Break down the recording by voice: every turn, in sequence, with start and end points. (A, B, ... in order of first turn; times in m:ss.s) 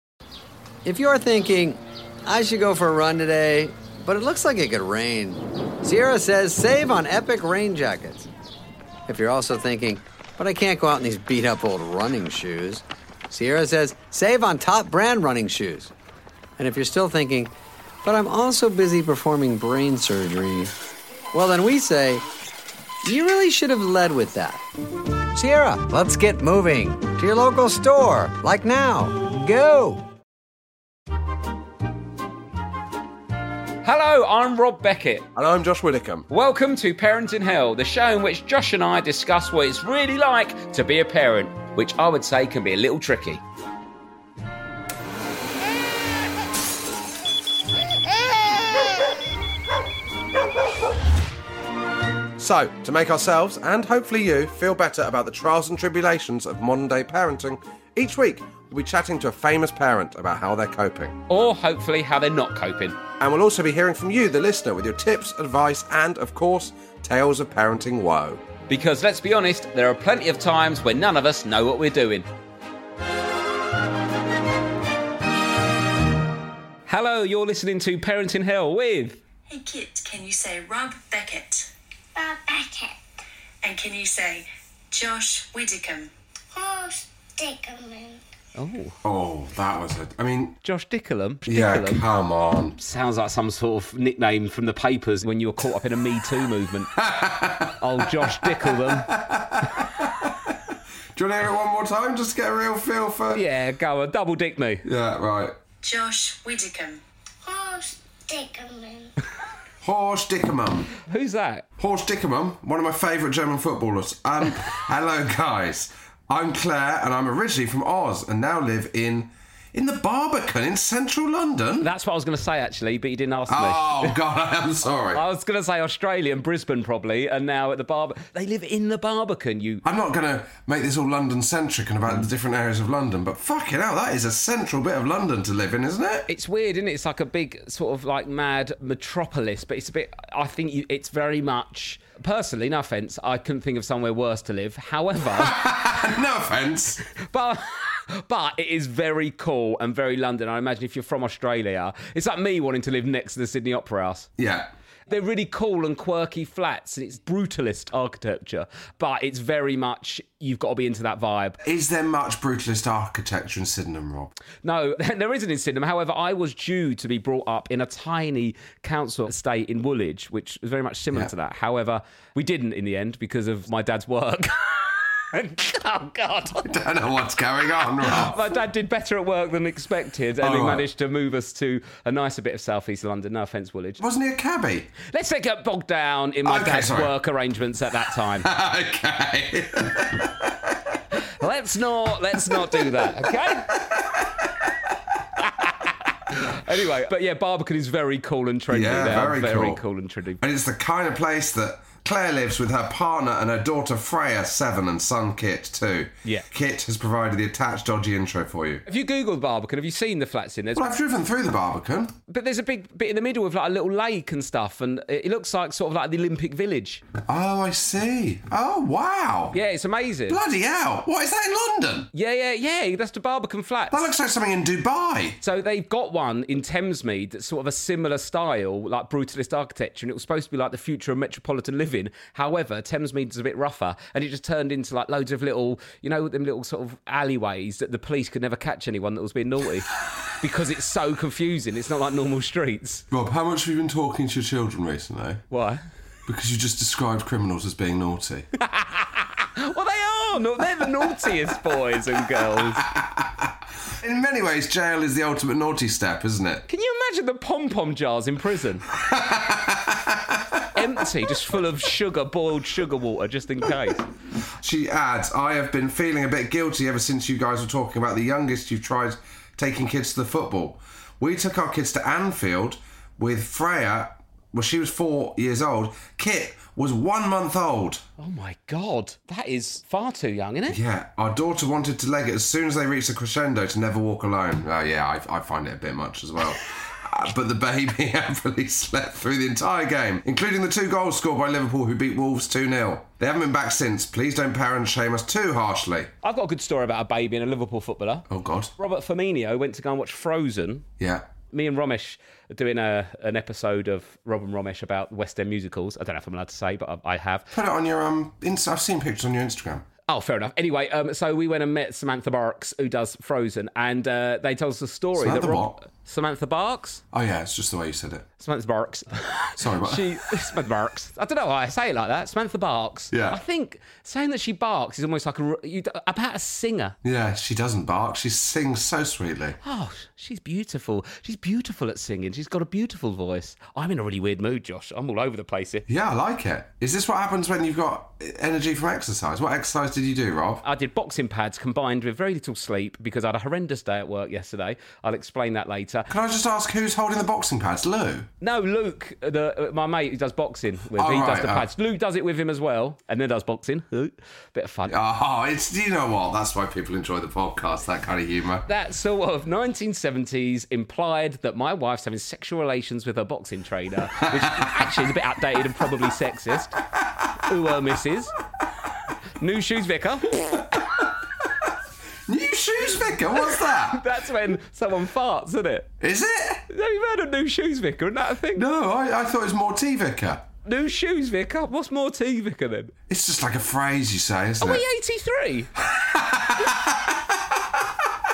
0:00.8-0:08.3 A
0:09.1-0:15.9 A
0:16.6-0:17.5 A
0:18.0-0:20.7 A
0:21.3-0:22.2 A
0:23.0-0:24.6 A
0:25.3-0:30.1 A
0:33.8-0:35.3 B
0:35.3-0:36.3 C
0:36.3-0:43.4 B
0:52.4-1:01.2 C
1:01.3-1:03.0 B
1:03.2-1:08.4 C
1:08.7-1:12.3 B
1:16.9-1:19.2 B
1:19.5-1:21.7 D
1:22.2-1:23.0 E
1:23.6-1:26.1 D
1:26.5-1:28.2 E
1:28.6-1:29.0 B
1:29.0-1:30.6 C
1:30.6-1:32.0 B
1:31.5-1:32.8 C
1:32.8-1:37.0 B
1:37.0-1:40.6 C
1:37.8-1:39.1 B
1:41.2-1:43.5 C
1:43.3-1:44.9 B
1:44.8-1:45.6 C
1:45.8-1:47.0 D
1:47.4-1:49.1 E
1:49.8-1:50.9 C
1:51.0-1:51.7 B
1:51.8-2:01.9 C
2:01.8-2:04.2 B
2:03.5-2:05.2 C
2:05.1-2:09.8 B
2:09.8-2:16.3 C
2:16.3-2:25.6 B
2:25.3-2:27.0 C
2:27.1-2:34.3 B
2:34.4-2:34.7 C
2:35.1-2:41.6 B
2:41.6-2:44.3 C
2:44.6-2:56.7 B
2:56.6-2:58.4 C
2:58.0-3:04.0 B
3:00.4-3:00.9 C
3:04.0-3:04.9 C
3:05.0-3:08.5 B
3:06.4-3:07.1 C
3:08.4-3:10.8 C
3:11.3-3:13.8 B
3:12.6-3:13.1 C
3:15.4-3:20.4 B
3:18.7-3:19.8 C
3:20.4-3:28.8 C
3:28.9-3:30.9 B
3:30.8-3:32.2 C
3:32.3-3:37.0 B
3:37.2-3:39.6 C
3:39.5-3:40.4 B
3:40.3-3:42.1 C
3:42.1-3:44.1 B
3:43.9-3:45.4 C
3:45.4-4:03.1 B
4:03.1-4:05.4 C
4:05.5-4:05.8 B
4:06.3-4:08.5 C
4:08.6-4:12.9 B
4:12.8-4:16.6 C
4:16.7-4:18.9 B
4:18.9-4:20.8 C
4:20.7-4:24.1 B
4:24.6-4:38.0 C
4:38.2-4:40.8 B
4:40.7-4:56.1 C
4:56.2-4:58.3 B
4:58.3-4:58.7 C
4:58.8-5:00.9 B
5:01.0-5:01.3 C
5:01.5-5:07.5 B
5:07.5-5:09.9 C
5:10.1-5:17.0 B
5:15.2-5:15.8 C
5:17.1-5:18.3 C
5:18.4-5:27.0 B
5:19.6-5:20.2 C
5:23.1-5:23.4 C
5:27.0-5:29.6 C
5:29.6-5:35.9 B
5:35.9-5:40.6 C
5:40.6-5:46.1 B
5:46.1-5:48.3 C
5:48.4-5:54.9 B
5:50.9-5:51.7 C
5:54.9-5:58.7 C
5:58.7-6:06.8 B
6:04.2-6:04.8 C
6:07.4-6:08.4 B
6:09.4-6:10.8 B
6:12.3-6:14.0 C
6:13.9-6:15.9 B
6:16.0-6:16.6 C
6:16.7-6:18.6 B
6:18.5-6:20.4 C
6:20.6-6:22.9 B
6:23.1-6:24.8 C
6:24.6-6:25.7 B
6:25.8-6:27.8 C